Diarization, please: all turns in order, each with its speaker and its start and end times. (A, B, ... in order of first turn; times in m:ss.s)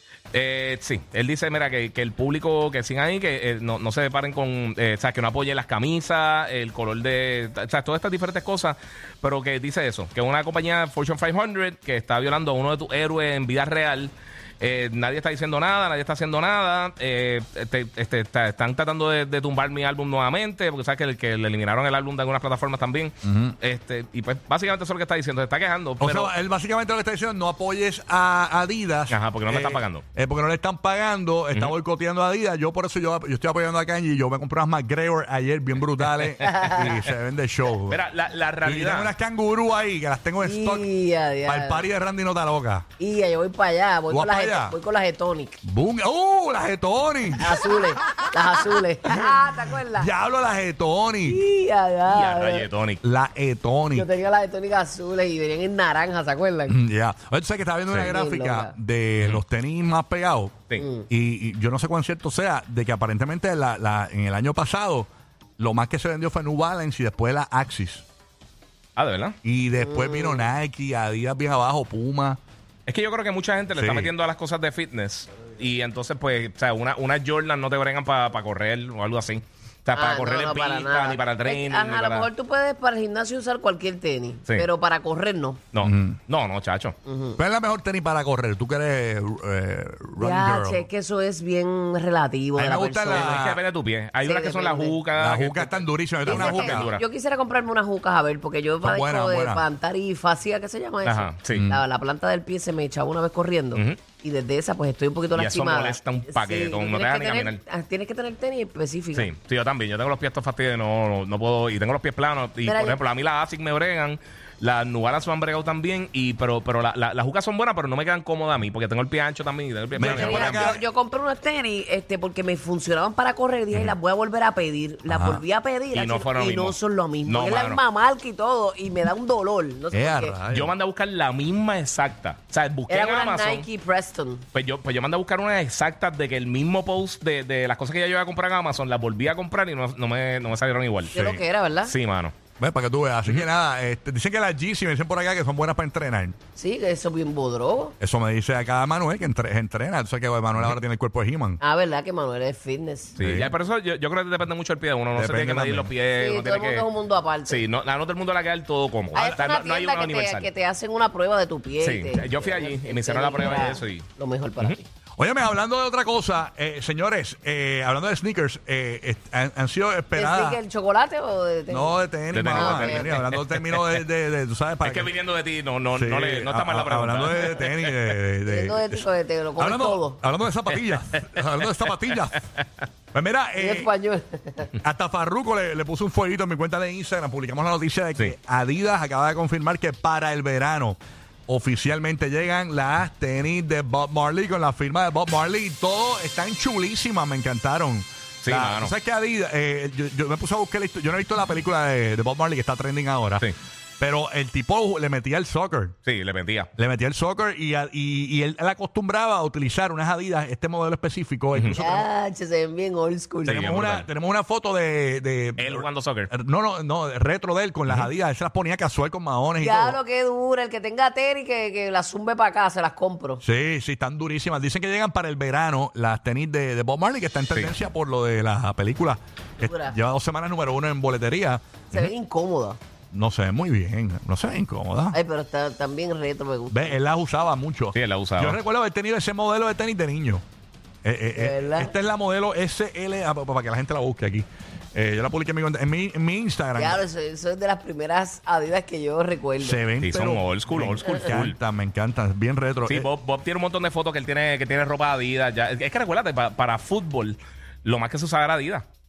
0:00.3-0:26.3 A
0:23.2-0:23.6 B
0:26.0-0:38.0 B
0:29.1-0:30.0 A
0:36.4-0:37.0 C
0:37.9-0:39.1 A
0:38.6-0:40.9 B
0:40.4-0:41.9 C
0:41.4-0:42.9 B
0:43.0-0:45.6 C
0:44.1-0:44.8 B
0:45.6-0:48.3 B
0:47.4-0:50.1 C
0:49.1-0:49.4 B
0:49.9-0:51.4 B
0:51.3-0:52.7 C
0:52.1-0:53.0 A
0:53.0-0:54.1 B
0:53.9-0:56.8 C
0:56.7-1:08.0 B
0:57.9-0:58.1 A
0:58.1-0:58.7 C
1:00.8-1:01.1 C
1:09.0-1:09.4 A
1:09.4-1:12.4 B
1:09.8-1:10.5 C
1:12.9-1:22.3 A
1:13.8-1:14.1 B
1:20.0-1:25.6 C
1:25.7-1:27.0 A
1:25.8-1:26.2 B
1:27.1-1:27.4 C
1:27.4-1:30.9 B
1:30.2-1:33.4 C
1:32.6-1:33.6 B
1:33.1-1:37.0 A
1:34.2-1:35.1 C
1:35.2-1:36.9 B
1:36.2-1:49.3 C
1:38.8-1:39.6 B
1:41.0-1:41.6 A
1:41.5-1:41.8 B
1:43.7-1:44.0 A
1:45.4-1:47.6 A
1:49.1-2:00.8 A
1:52.6-1:53.0 C
2:00.0-2:10.4 C
2:00.0-2:00.8 B
2:05.1-2:05.4 B
2:05.9-2:07.8 A
2:09.9-2:10.7 B
2:10.5-2:13.7 A
2:12.9-2:14.4 C
2:14.5-2:21.2 A
2:21.1-2:21.9 C
2:21.1-2:21.4 B
2:21.8-2:22.4 A
2:22.6-2:26.4 B
2:26.6-2:28.0 C
2:28.0-2:31.6 B
2:31.6-2:33.2 C
2:33.2-2:36.9 A
2:33.2-2:33.5 B
2:35.1-2:35.9 B
2:36.2-2:37.7 C
2:37.4-2:40.5 A
2:39.1-2:44.8 C
2:41.8-2:44.1 A
2:45.2-2:50.6 B
2:50.1-2:52.0 C
2:51.7-2:55.1 B
2:52.3-2:54.0 A
2:52.5-2:53.2 C
2:54.8-2:58.2 A
2:55.9-2:59.1 B
2:58.4-3:00.2 C
2:59.6-3:02.4 B
3:00.7-3:02.6 A
3:03.1-3:03.9 B
3:03.6-3:04.7 C
3:04.8-3:23.5 B
3:18.4-3:18.9 A
3:24.0-3:26.0 B
3:26.1-3:26.7 A
3:26.8-3:32.1 B
3:31.5-3:31.8 A
3:31.8-3:33.7 C
3:33.4-3:34.1 A
3:33.5-3:40.0 B
3:35.6-3:36.3 A
3:39.6-3:43.4 C
3:43.4-3:52.1 B
3:47.5-3:47.8 A
3:49.6-3:50.0 C
3:51.9-3:52.8 C
3:53.1-3:55.2 B
3:55.1-3:57.0 C
3:56.7-4:00.4 B
3:57.9-3:58.6 A
4:01.0-4:07.0 B
4:01.3-4:01.9 C
4:06.8-4:09.8 C
4:09.6-4:13.1 B
4:10.0-4:11.6 A
4:12.9-4:18.9 A